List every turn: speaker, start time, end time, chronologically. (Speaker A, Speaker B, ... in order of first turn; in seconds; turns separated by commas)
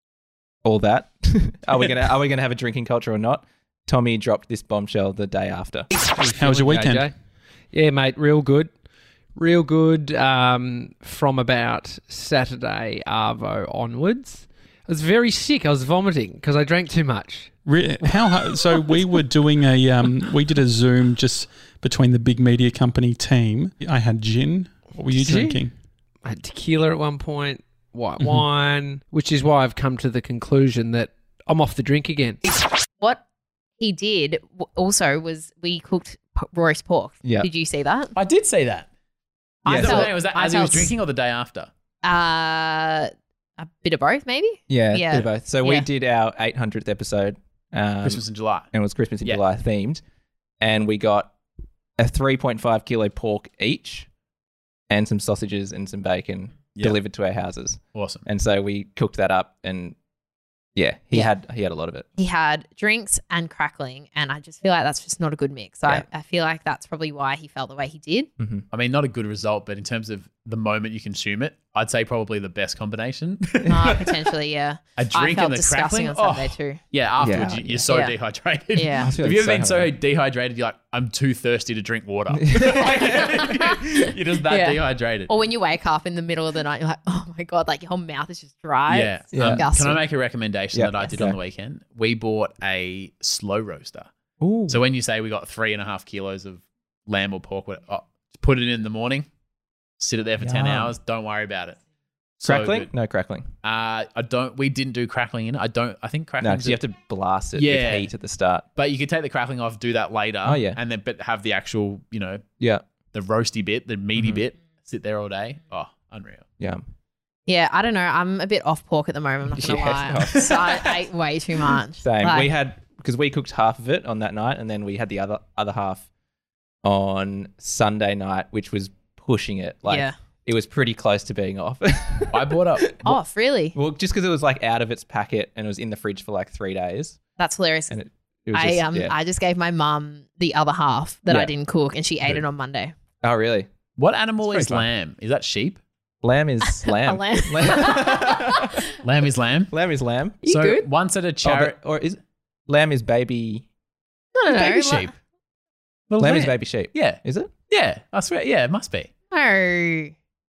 Speaker A: 0.6-5.9, Speaker B: 6.1-7.1, Speaker C: 6.4-7.1, Speaker B: 7.7-8.7, Speaker B: 9.3-17.5, Speaker C: 17.6-25.7, Speaker B: 25.1-25.6, Speaker B: 26.2-32.4, Speaker D: 33.8-38.1, Speaker A: 37.2-37.5, Speaker E: 38.1-38.9, Speaker D: 39.6-40.9, Speaker A: 39.6-40.1, Speaker E: 39.7-41.7, Speaker D: 42.0-45.8, Speaker A: 44.7-50.0, Speaker E: 48.0-48.7, Speaker A: 50.6-51.3, Speaker A: 52.0-54.1, Speaker A: 54.9-60.0, Speaker E: 57.9-58.2, Speaker A: 60.8-62.0, Speaker D: 62.2-68.3, Speaker A: 68.4-68.7, Speaker E: 68.7-74.1, Speaker D: 73.7-76.8, Speaker E: 75.0-85.3, Speaker A: 77.2-77.9, Speaker D: 77.9-78.1, Speaker D: 78.7-79.1, Speaker A: 79.0-79.9, Speaker A: 82.3-83.3, Speaker D: 83.0-90.0, Speaker E: 88.9-94.1, Speaker A: 89.3-89.7, Speaker A: 90.7-91.3, Speaker A: 94.4-94.8, Speaker E: 94.7-99.2, Speaker E: 100.0-101.8, Speaker A: 100.4-100.9, Speaker E: 102.4-102.9, Speaker A: 102.4-103.5, Speaker E: 103.6-106.8, Speaker A: 106.4-108.6, Speaker E: 107.5-108.1, Speaker E: 108.8-112.4, Speaker A: 110.4-110.8, Speaker E: 113.1-116.4, Speaker A: 114.2-114.4, Speaker D: 117.5-122.5, Speaker A: 119.5-120.5, Speaker E: 120.2-120.9, Speaker A: 122.0-126.1, Speaker A: 126.8-133.2, Speaker D: 129.9-130.1, Speaker E: 132.3-133.0, Speaker D: 133.0-133.7, Speaker A: 133.7-137.2, Speaker D: 137.4-137.9, Speaker A: 137.9-139.1, Speaker D: 138.5-142.9, Speaker A: 143.2-143.7, Speaker E: 144.0-145.8, Speaker A: 144.5-144.8, Speaker A: 146.2-148.8, Speaker D: 146.7-148.7, Speaker E: 149.0-149.7, Speaker A: 149.7-150.4, Speaker D: 150.4-150.8, Speaker E: 150.4-151.8, Speaker A: 151.4-153.7, Speaker D: 154.3-155.1, Speaker E: 154.5-155.1, Speaker E: 156.1-159.1, Speaker A: 156.2-157.5, Speaker D: 159.3-160.1